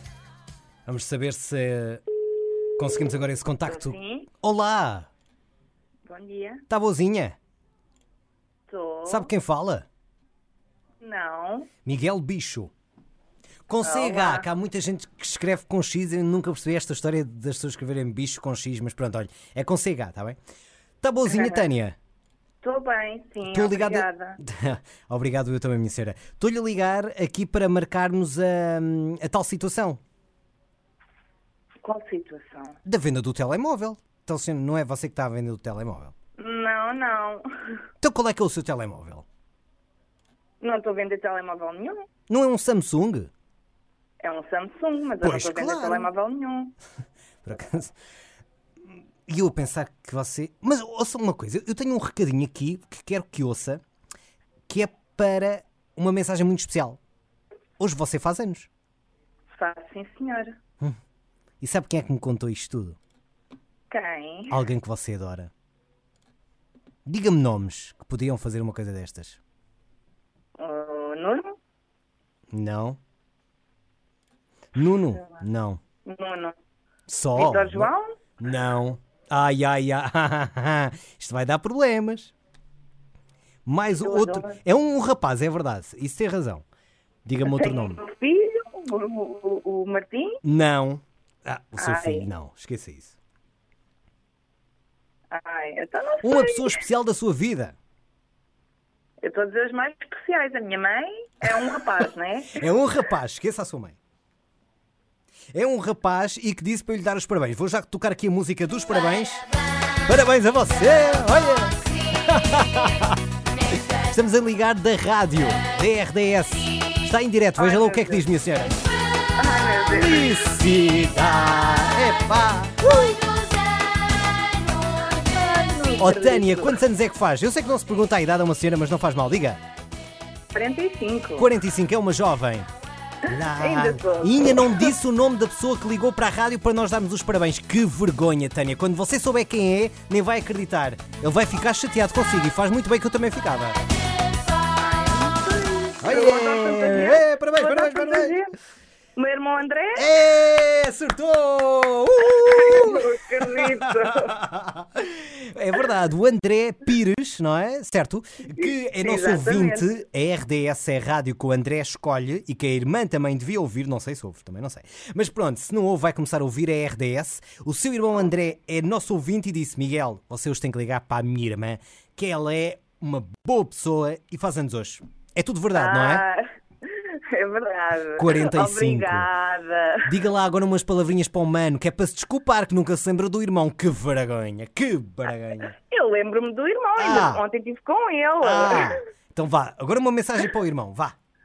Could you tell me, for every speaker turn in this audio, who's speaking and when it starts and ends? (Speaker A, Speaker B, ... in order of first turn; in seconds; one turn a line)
Speaker A: 0.8-2.0
Speaker A: 2.8-5.1
Speaker B: 3.7-4.3
Speaker B: 6.1-6.6
Speaker A: 6.7-7.3
Speaker B: 8.7-9.3
Speaker A: 9.1-9.9
Speaker B: 11.0-11.7
Speaker A: 11.8-12.7
Speaker A: 13.7-20.4
Speaker B: 13.8-14.5
Speaker A: 21.0-21.9
Speaker B: 21.2-21.7
Speaker B: 22.6-24.4
Speaker A: 23.4-30.0
Speaker B: 31.8-32.8
Speaker A: 32.8-36.1
Speaker B: 36.4-37.4
Speaker A: 38.0-39.2
Speaker B: 40.6-42.0
Speaker A: 42.3-43.3
Speaker B: 44.2-46.7
Speaker A: 45.2-46.1
Speaker A: 47.4-47.9
Speaker A: 49.3-53.8
Speaker A: 54.7-57.0
Speaker A: 57.8-58.7
Speaker B: 59.6-60.6
Speaker A: 61.6-63.0
Speaker B: 63.9-64.6
Speaker A: 64.5-65.5
Speaker A: 67.0-69.4
Speaker B: 70.6-71.6
Speaker A: 72.5-73.0
Speaker A: 74.7-75.8
Speaker B: 75.1-75.4
Speaker B: 76.0-76.5
Speaker A: 77.1-82.3
Speaker B: 77.3-78.1
Speaker A: 83.7-86.6
Speaker B: 84.0-84.6
Speaker A: 87.2-88.0
Speaker B: 87.4-90.4
Speaker A: 90.4-93.2
Speaker B: 91.8-92.3
Speaker B: 95.3-96.8
Speaker A: 96.2-97.8
Speaker B: 99.2-102.6
Speaker A: 102.5-104.0
Speaker A: 105.5-109.5
Speaker A: 110.0-113.2
Speaker A: 114.1-118.8
Speaker B: 117.6-118.2
Speaker B: 119.3-120.3
Speaker A: 119.9-123.2
Speaker B: 125.0-126.8
Speaker A: 126.0-129.6
Speaker B: 130.5-131.5
Speaker A: 131.4-132.7
Speaker A: 133.3-143.8
Speaker B: 133.5-134.9
Speaker B: 144.7-148.5
Speaker A: 146.0-148.3
Speaker B: 149.2-150.1
Speaker A: 149.9-176.2
Speaker B: 152.3-154.4
Speaker B: 158.6-159.9
Speaker B: 175.7-180.1
Speaker A: 178.2-179.3
Speaker A: 180.1-185.7
Speaker B: 185.8-189.0
Speaker A: 187.0-187.4
Speaker A: 188.4-191.1